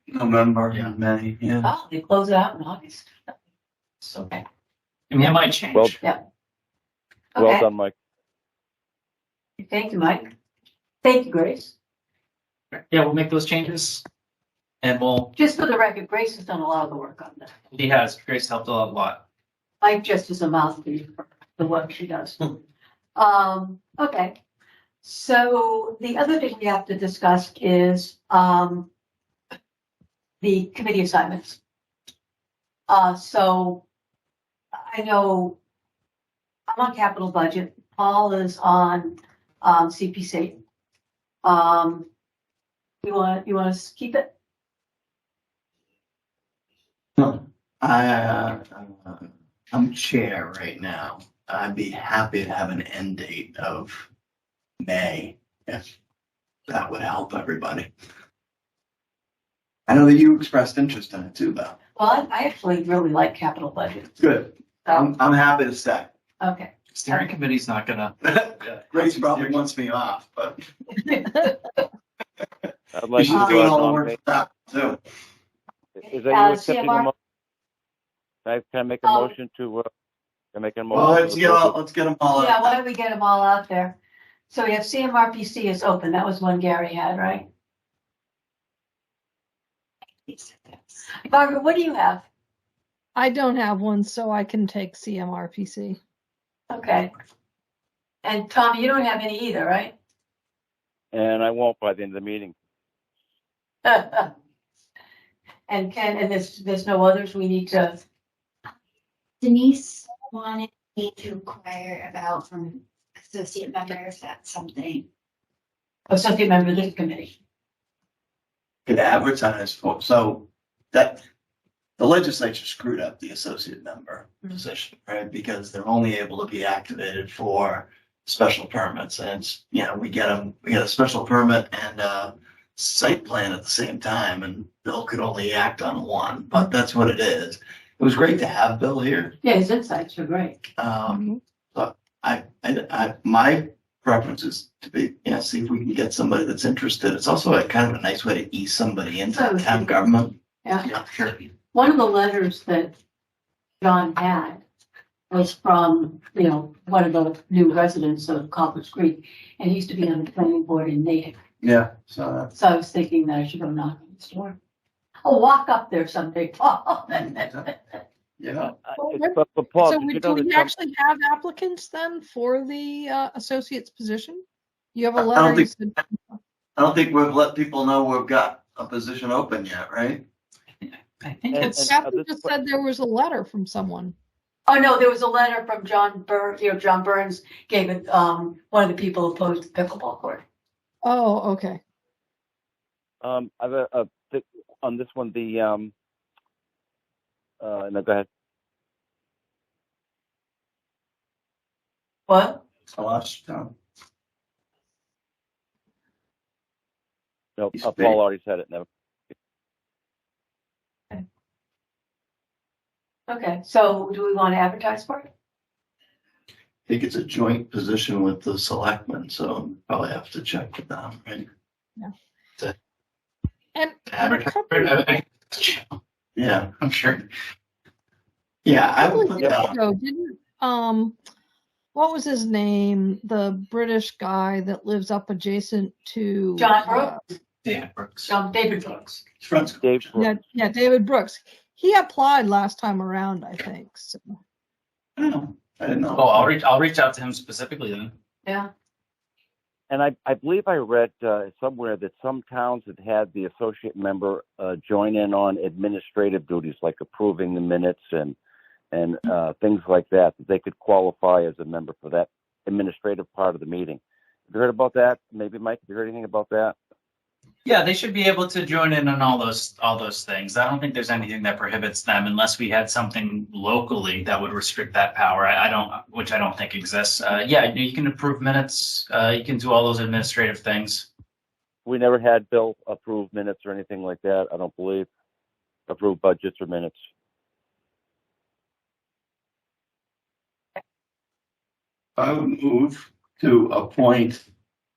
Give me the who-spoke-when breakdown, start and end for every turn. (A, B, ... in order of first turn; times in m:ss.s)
0:00.1-0:01.7 A
0:01.6-0:03.1 B
0:04.0-0:04.4 B
0:05.1-0:06.0 C
0:07.4-0:07.6 B
0:07.4-0:07.9 D
0:09.6-0:10.3 B
0:11.0-0:11.7 B
0:12.7-0:14.0 C
0:14.8-0:15.3 C
0:15.4-0:17.5 B
0:17.7-0:19.2 C
0:19.8-0:22.5 B
0:23.1-0:24.4 B
0:25.0-0:28.9 B
0:30.4-0:31.6 B
0:32.9-0:33.8 B
0:34.7-0:35.6 B
0:36.7-0:40.6 B
0:41.4-0:42.1 B
0:43.0-0:44.3 B
0:47.2-0:54.1 A
0:54.8-0:55.8 A
0:56.7-0:57.9 A
0:59.9-1:01.8 A
1:02.0-1:04.1 B
1:04.2-1:06.1 A
1:04.8-1:05.1 B
1:06.4-1:07.3 B
1:06.9-1:09.6 C
1:08.2-1:10.6 A
1:11.0-1:11.5 B
1:12.9-1:14.2 D
1:13.1-1:15.0 A
1:13.3-1:13.6 B
1:16.0-1:17.1 D
1:16.0-1:17.1 B
1:18.4-1:19.9 D
1:19.0-1:19.3 B
1:20.5-1:21.8 D
1:20.9-1:22.8 A
1:22.3-1:24.0 B
1:24.5-1:27.5 B
1:30.3-1:31.0 E
1:31.2-1:32.2 B
1:33.2-1:36.0 F
1:36.7-1:37.1 B
1:38.2-1:39.9 B
1:41.1-1:42.5 D
1:43.8-1:44.3 B
1:45.7-1:48.0 B
1:49.4-1:55.0 E
1:56.1-1:57.3 B
1:58.8-2:01.2 A
2:02.0-2:19.4 A
2:19.4-2:20.6 B
2:20.8-2:31.4 A
2:21.1-2:21.4 F
2:29.3-2:29.9 B
2:31.7-2:32.9 B
2:33.8-2:34.6 B
2:35.3-2:41.4 B
2:41.6-2:42.5 A
2:42.5-2:44.6 B
2:45.2-2:47.7 B
2:47.1-2:47.7 A
2:48.4-2:48.7 A
2:48.8-2:50.7 D
2:49.0-2:56.3 F
2:55.2-2:55.7 A
2:56.8-3:00.2 A
3:01.2-3:02.0 C
3:01.5-3:02.5 D
3:01.6-3:04.1 F
3:04.7-3:10.4 B
3:11.0-3:11.8 F
3:13.2-3:15.9 D
3:17.6-3:18.2 D
3:22.3-3:22.6 B
3:22.9-3:23.7 A
3:27.6-3:28.9 D
3:27.7-3:28.2 A
3:33.3-3:35.3 B
3:36.9-3:41.5 A
3:43.7-3:45.2 F
3:44.1-3:44.5 A
3:44.2-3:45.8 C
3:46.4-3:46.8 A
3:46.8-3:47.2 C
3:48.6-3:49.7 A
3:49.0-3:51.2 F
3:51.9-3:57.2 F
3:56.6-3:57.2 B
3:57.6-3:58.3 C
3:58.3-3:59.2 B
3:59.4-4:00.1 A
3:59.8-4:00.4 D
4:00.2-4:04.3 F
4:05.2-4:06.5 A
4:06.0-4:08.1 C
4:09.9-4:18.4 D
4:18.9-4:26.8 D
4:27.6-4:41.1 C
4:41.8-4:45.1 D
4:45.9-4:47.0 D
4:52.2-4:54.5 A